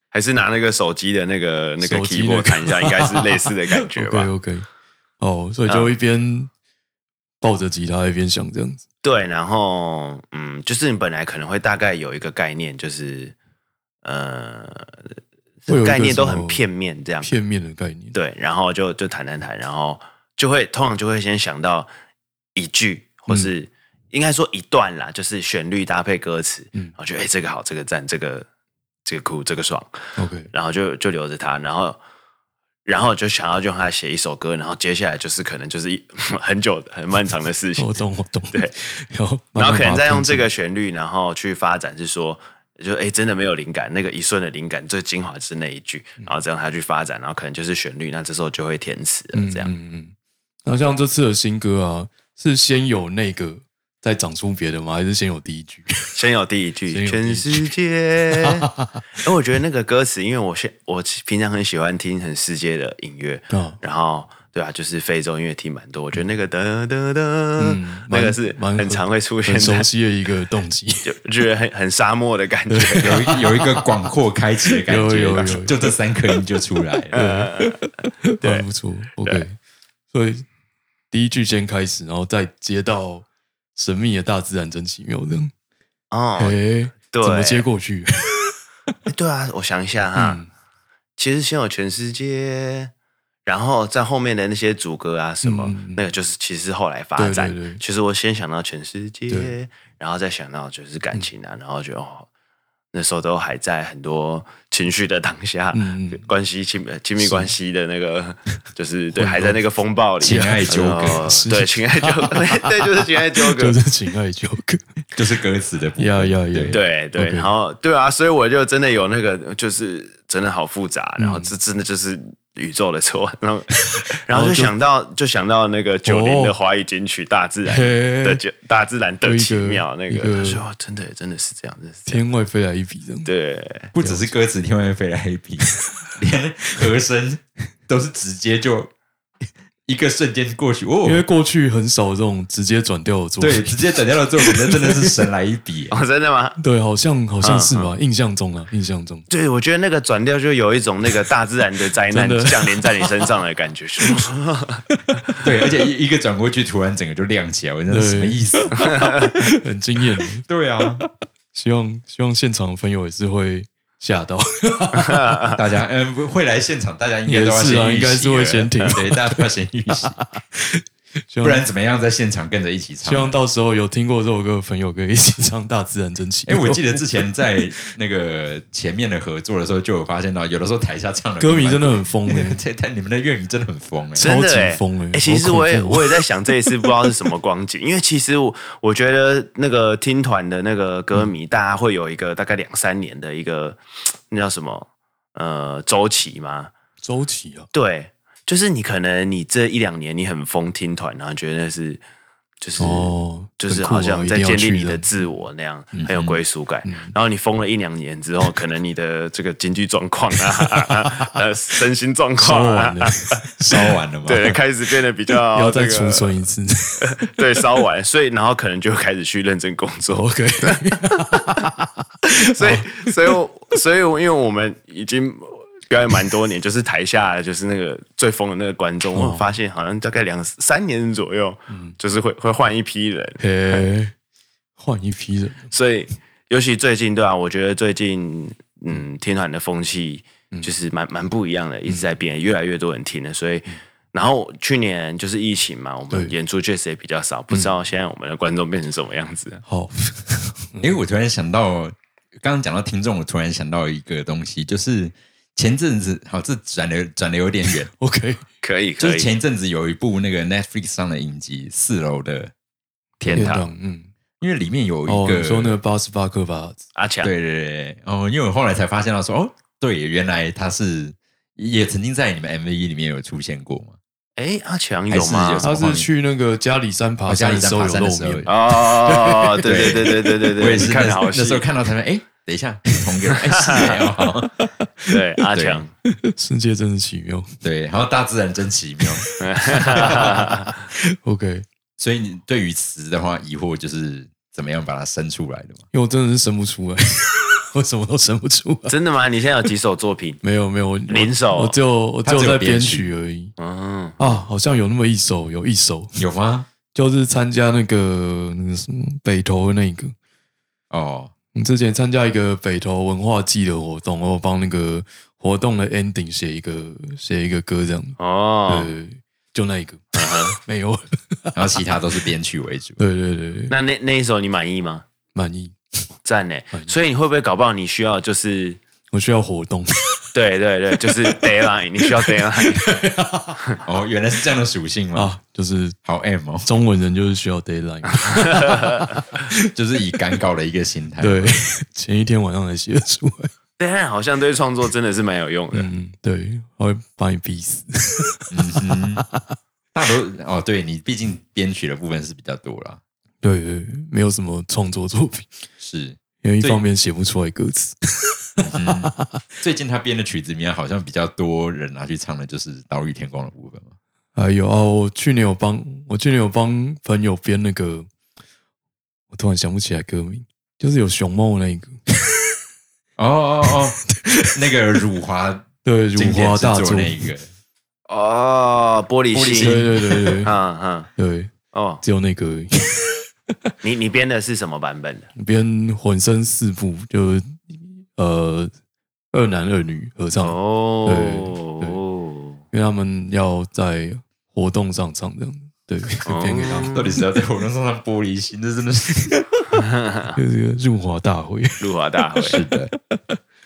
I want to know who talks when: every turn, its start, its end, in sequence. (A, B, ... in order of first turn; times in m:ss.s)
0:00.1-0:04.3 A
0:01.8-0:04.7 B
0:05.2-0:06.5 B
0:05.7-0:05.9 A
0:07.4-0:08.8 B
0:09.0-0:13.3 A
0:14.0-0:15.0 A
0:15.6-0:17.3 A
0:15.7-0:16.6 B
0:17.2-0:18.1 B
0:18.1-0:21.9 A
0:22.5-0:28.5 A
0:29.0-0:29.9 A
0:30.2-0:30.5 B
0:30.5-0:32.0 A
0:32.8-0:37.9 A
0:37.8-0:40.5 B
0:39.6-0:49.7 A
0:49.3-0:50.1 B
0:50.6-0:56.1 B
0:56.1-1:09.9 A
0:56.9-0:57.7 B
0:58.3-0:59.0 B
1:03.5-1:03.8 B
1:07.6-1:11.2 B
1:11.0-1:13.2 A
1:12.7-1:13.9 B
1:13.0-1:17.1 C
1:14.8-1:15.9 B
1:17.1-1:17.8 A
1:17.1-1:19.6 B
1:20.1-1:20.4 B
1:21.1-1:23.2 B
1:23.8-1:25.5 B
1:26.1-1:26.6 A
1:26.4-1:28.6 B
1:27.1-1:27.6 A
1:29.1-1:30.4 A
1:30.1-1:30.5 B
1:31.2-1:32.9 A
1:33.4-1:42.3 A
1:35.4-1:36.0 B
1:37.2-1:37.8 B
1:39.3-1:39.5 B
1:42.9-1:53.7 A
1:45.7-1:46.2 B
1:47.2-1:47.5 B
1:49.1-1:49.6 B
1:50.2-1:51.3 C
1:50.2-1:54.8 B
1:55.1-1:56.8 C
1:56.0-1:57.5 B
1:56.7-2:12.2 A
2:01.2-2:01.5 B
2:03.8-2:04.7 B
2:06.0-2:06.5 B
2:07.6-2:08.4 B
2:09.2-2:10.6 B
2:12.1-2:13.3 B
2:13.2-2:13.9 A
2:13.9-2:18.9 C
2:14.0-2:14.3 B
2:19.9-2:21.2 C
2:21.0-2:25.0 B
2:23.4-2:26.0 C
2:25.9-2:26.6 A
2:26.6-2:29.2 B
2:27.4-2:27.9 A
2:29.3-2:34.8 A
2:32.1-2:33.3 B
2:34.9-2:35.4 B
2:35.4-2:39.3 C
2:37.9-2:40.4 B
2:38.8-2:39.3 A
2:40.4-2:41.0 C
2:41.0-2:45.5 B
2:45.0-2:45.6 A
2:45.5-2:50.2 C
2:47.3-2:51.6 B
2:51.4-2:53.4 C
2:53.0-2:57.2 B
2:56.5-3:04.3 C
3:01.4-3:02.6 B
3:04.2-3:16.7 A
3:04.2-3:07.1 B
3:17.0-3:17.7 B
3:17.7-3:22.0 A
3:22.6-3:33.4 A
3:22.8-3:25.1 B
3:26.0-3:26.4 C
3:26.8-3:27.1 B
3:30.8-3:31.2 B
3:32.4-3:33.9 B
3:33.6-3:34.6 C
3:34.2-3:36.4 A
3:35.5-3:37.5 B
3:37.0-3:41.4 A
3:40.1-3:43.3 B
3:42.4-3:53.8 A
3:49.1-3:49.4 B
3:51.7-3:52.0 B
3:53.4-3:54.1 B
3:54.8-3:55.7 B
3:55.7-4:09.6 A
4:01.9-4:02.1 B
4:09.7-4:11.0 B
4:10.8-4:17.9 C
4:17.9-4:18.4 B
4:18.6-4:19.3 A
4:19.0-4:22.5 C
4:23.2-4:23.7 A
4:23.2-4:23.6 C
4:23.3-4:24.1 B
4:24.4-4:25.8 C
4:25.0-4:26.8 B
4:27.0-4:27.3 A
4:27.2-4:34.0 C
4:34.4-4:35.6 A
4:35.1-4:36.1 C
4:35.6-4:39.8 B
4:37.3-4:38.5 C
4:38.5-4:41.6 A
4:39.6-4:44.5 C
4:43.4-4:43.8 A
4:43.6-4:45.1 B
4:45.1-4:45.9 A
4:45.5-4:45.8 C
4:46.1-4:47.6 B
4:47.6-4:49.9 C
4:49.2-4:51.6 B
4:49.4-4:50.8 A
4:52.0-4:55.8 C
4:55.9-4:59.0 B
4:58.9-5:00.4 A
5:00.4-5:03.5 B
5:01.1-5:01.8 A
5:02.2-5:03.1 C
5:03.6-5:04.4 A
5:04.2-5:06.2 B
5:06.2-5:06.7 C
5:06.9-5:10.1 B
5:10.9-5:11.3 C
5:11.5-5:21.8 B
5:18.2-5:18.9 A
5:20.1-5:20.6 A
5:21.5-5:23.0 C
5:23.0-5:23.8 B
5:23.7-5:25.0 A
5:25.3-5:25.7 B
5:26.2-5:28.8 A
5:29.1-5:30.2 B
5:30.3-5:33.0 A
5:31.0-5:31.5 B
5:32.0-5:33.6 B
5:33.8-5:35.3 C
5:35.1-5:36.0 B
5:36.0-5:36.7 C
5:36.6-5:39.5 B
5:38.2-5:39.2 A
5:39.7-5:41.5 C
5:41.2-5:43.5 B
5:43.8-5:45.9 A
5:45.7-5:49.5 B
5:48.5-5:49.2 C
5:49.9-5:53.0 C
5:53.4-5:55.6 B
5:55.8-5:56.8 C
5:56.4-5:59.2 B
5:58.6-6:03.9 C
6:04.3-6:08.1 B
6:09.3-6:12.0 B
6:13.2-6:17.5 C
6:14.1-6:14.5 B
6:15.8-6:17.2 B
6:18.1-6:19.8 A
6:19.3-6:20.4 C
6:19.6-6:20.5 B
6:20.4-6:21.1 A
6:21.2-6:23.2 B
6:21.7-6:22.0 A
6:23.8-6:25.3 A
6:25.4-6:28.7 B
6:29.3-6:32.0 B
6:30.4-6:32.6 A
6:32.7-6:37.2 B
6:36.2-6:37.2 A
6:36.8-6:39.4 C
6:39.4-6:39.8 B
6:39.7-6:40.4 A
6:40.3-6:43.4 B
6:41.8-6:42.6 A
6:42.4-6:42.9 C